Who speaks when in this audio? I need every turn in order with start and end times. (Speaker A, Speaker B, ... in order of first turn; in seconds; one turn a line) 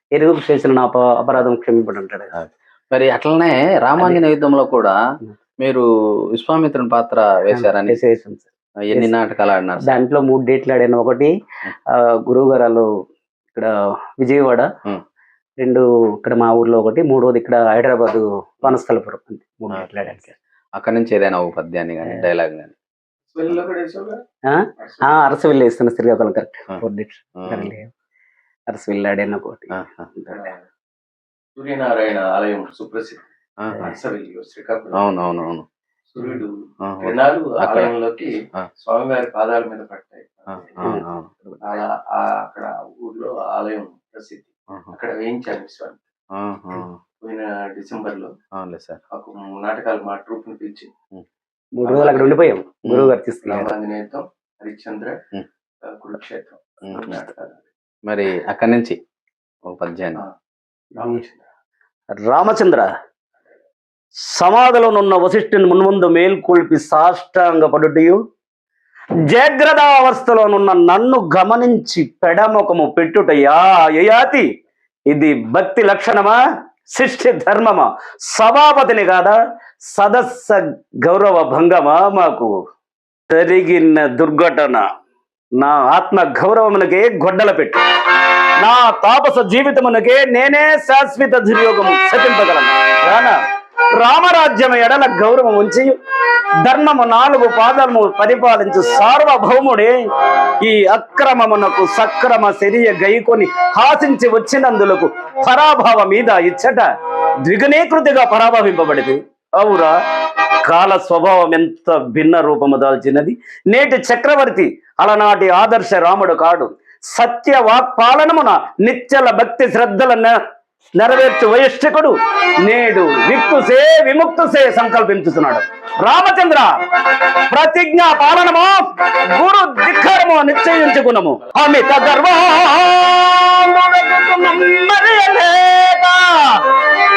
Speaker A: 0.2-2.3
Speaker B: 2.4-5.0
Speaker B: 5.6-8.0
Speaker A: 7.5-9.1
Speaker B: 8.9-10.0
Speaker A: 9.8-11.3
Speaker A: 12.3-12.9
Speaker A: 14.2-14.7
Speaker A: 15.6-20.3
Speaker B: 20.8-22.7
Speaker C: 23.3-24.2
Speaker A: 24.5-27.9
Speaker B: 27.4-27.7
Speaker A: 28.7-30.4
Speaker B: 29.8-30.1
Speaker C: 30.3-30.6
Speaker C: 31.6-33.2
Speaker C: 33.8-35.1
Speaker B: 35.0-35.7
Speaker C: 36.1-40.9
Speaker B: 36.9-37.9
Speaker B: 40.8-41.3
Speaker A: 40.8-41.6
Speaker C: 41.6-46.0
Speaker B: 46.4-47.0
Speaker C: 47.2-48.3
Speaker B: 48.6-49.0
Speaker C: 49.1-50.9
Speaker A: 51.8-53.8
Speaker C: 51.8-52.5
Speaker B: 52.9-53.1
Speaker C: 53.5-55.2
Speaker C: 55.8-57.6
Speaker B: 58.1-59.0
Speaker B: 59.7-60.2
Speaker C: 61.0-61.4
Speaker A: 62.1-62.9
Speaker A: 64.3-68.2
Speaker A: 69.3-74.5
Speaker A: 75.1-76.4
Speaker A: 76.9-79.4
Speaker A: 79.9-82.5
Speaker A: 83.3-84.8
Speaker A: 85.6-87.8
Speaker A: 88.6-93.4
Speaker A: 94.0-95.9
Speaker A: 96.6-99.9
Speaker A: 100.6-106.9
Speaker A: 107.4-110.0
Speaker A: 110.7-120.3
Speaker A: 121.0-126.7
Speaker A: 127.5-136.6